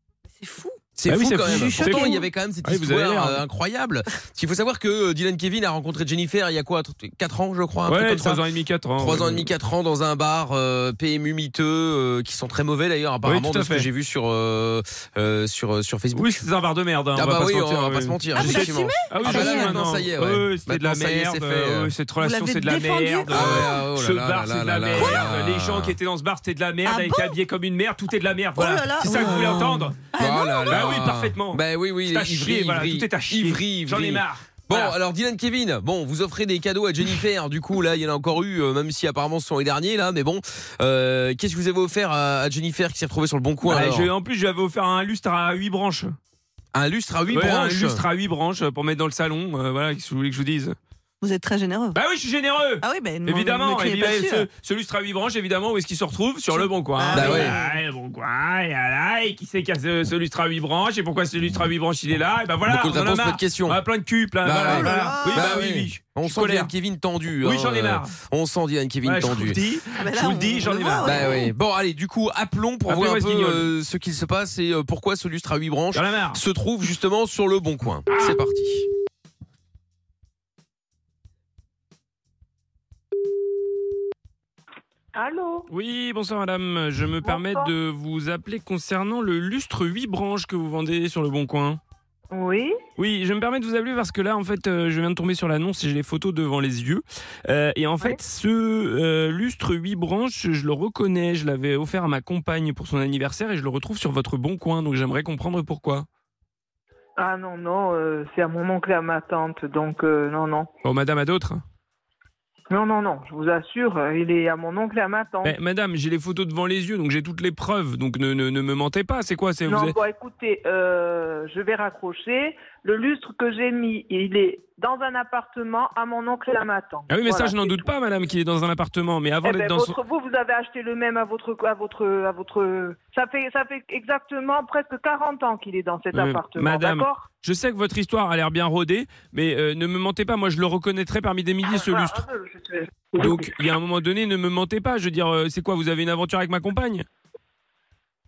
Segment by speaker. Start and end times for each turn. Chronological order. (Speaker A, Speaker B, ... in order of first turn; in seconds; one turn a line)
Speaker A: 0.3-0.8
Speaker B: 0.9-8.4
Speaker C: 1.1-3.4
Speaker A: 1.4-2.2
Speaker C: 7.9-9.5
Speaker B: 9.0-16.4
Speaker C: 13.2-13.9
Speaker C: 16.1-30.0
Speaker B: 17.1-21.9
Speaker A: 18.3-19.7
Speaker A: 22.2-23.6
Speaker B: 23.3-25.9
Speaker A: 25.0-25.2
Speaker A: 26.9-27.4
Speaker A: 28.6-30.9
Speaker B: 30.1-44.1
Speaker C: 30.7-35.0
Speaker C: 43.6-46.1
Speaker B: 46.7-48.0
Speaker C: 47.3-50.7
Speaker A: 51.2-52.0
Speaker C: 51.9-66.7
Speaker A: 52.8-54.5
Speaker A: 56.5-57.8
Speaker B: 57.1-57.5
Speaker B: 62.7-63.8
Speaker B: 64.4-69.6
Speaker A: 64.6-65.5
Speaker C: 67.4-68.1
Speaker C: 69.0-71.3
Speaker A: 70.0-71.4
Speaker B: 71.0-78.8
Speaker C: 72.9-73.7
Speaker C: 75.9-76.4
Speaker D: 85.1-85.7
Speaker C: 85.7-91.8
Speaker D: 87.2-87.7
Speaker D: 92.3-92.8
Speaker C: 93.0-106.0
Speaker D: 107.2-110.7
Speaker C: 110.8-111.6
Speaker D: 112.7-115.6
Speaker C: 115.4-120.0
Speaker D: 119.6-127.9
Speaker C: 127.1-129.9
Speaker D: 129.4-137.3
Speaker C: 136.1-142.2
Speaker D: 141.6-143.6
Speaker C: 143.2-147.0